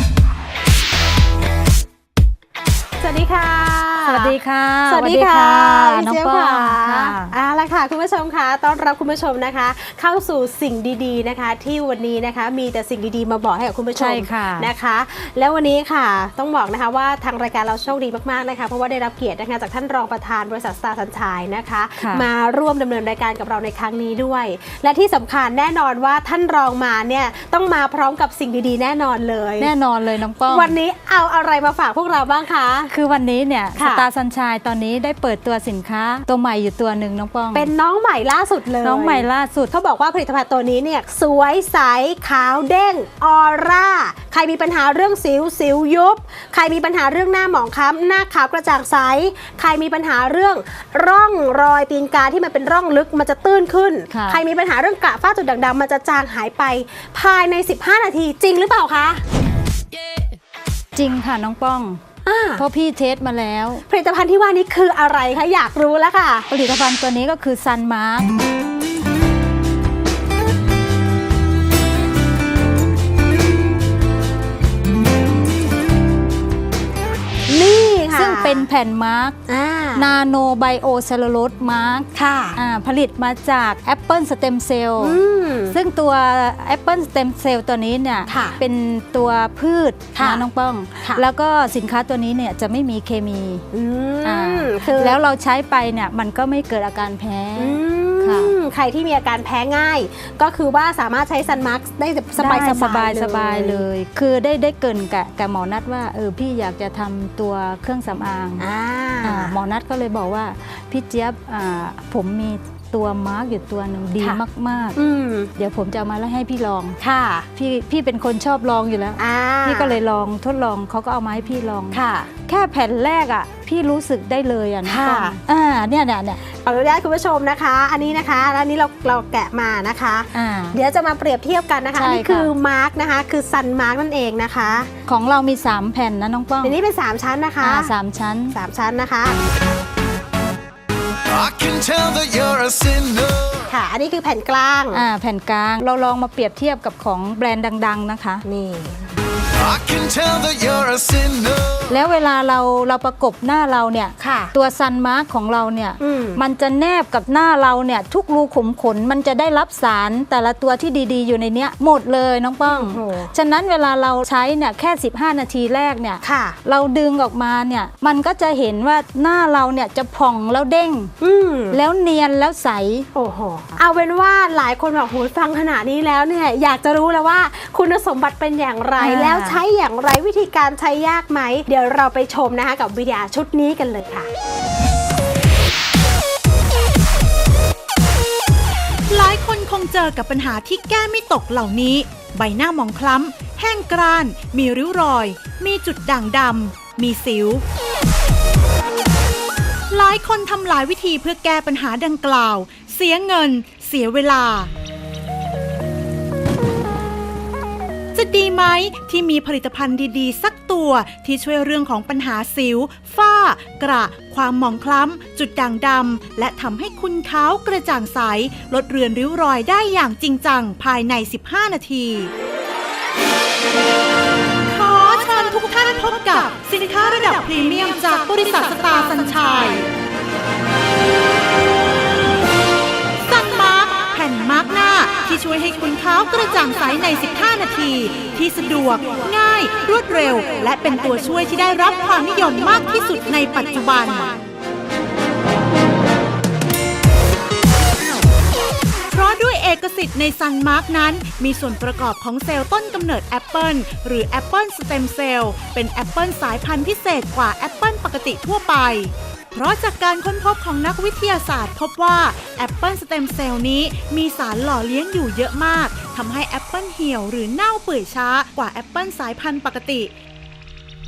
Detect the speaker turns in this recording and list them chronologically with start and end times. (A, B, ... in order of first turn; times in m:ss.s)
0:03.0-0:29.7 A
0:04.0-0:07.3 B
0:14.0-0:14.7 B
0:22.0-0:22.3 B
0:29.6-0:30.7 B
0:30.4-0:32.9 A
0:32.9-0:37.7 B
0:33.8-0:34.1 A
0:37.5-0:59.2 A
0:38.8-0:39.7 B
0:54.1-0:54.4 B
1:00.9-1:02.0 B
1:02.2-1:02.6 A
1:02.6-1:03.8 B
1:03.9-1:06.5 A
1:06.5-1:08.3 B
1:17.5-1:18.6 A
1:18.1-1:19.4 B
1:19.5-1:20.1 A
1:20.0-1:25.2 B
1:22.1-1:22.6 A
1:25.0-1:25.8 A
1:25.7-1:33.6 B
1:28.3-1:28.6 A
1:30.1-1:30.4 A
1:33.7-1:35.2 A
1:34.2-1:38.5 B
1:37.6-1:43.8 A
1:42.4-1:48.6 B
1:48.6-1:49.6 A
1:49.2-1:55.0 B
1:55.0-1:55.5 A
1:55.6-1:57.0 B
1:57.0-1:57.5 A
1:57.5-2:06.4 B
1:59.2-2:00.0 A
2:01.9-2:02.3 A
2:04.8-2:05.4 A
2:06.5-2:14.9 A
2:10.3-2:10.8 B
2:11.9-2:12.5 B
2:15.1-2:16.8 B
2:16.6-2:17.9 A
2:17.6-2:18.6 B
2:18.5-2:19.4 A
2:21.2-2:23.7 C
2:23.7-2:25.0 A
2:24.9-2:28.4 B
2:28.4-2:29.1 A
2:29.5-2:31.9 C
2:31.9-2:51.1 B
2:34.2-2:34.5 A
2:36.0-2:36.4 A
2:42.6-2:43.3 A
2:46.2-2:46.6 A
2:51.2-2:51.8 A
2:51.7-2:53.1 B
2:53.1-3:04.3 A
2:59.0-2:59.6 B
3:09.1-3:17.6 D
3:19.9-3:24.7 D
3:28.1-3:42.3 D
3:44.7-3:49.9 D
3:53.3-4:04.4 D
4:09.1-4:30.1 D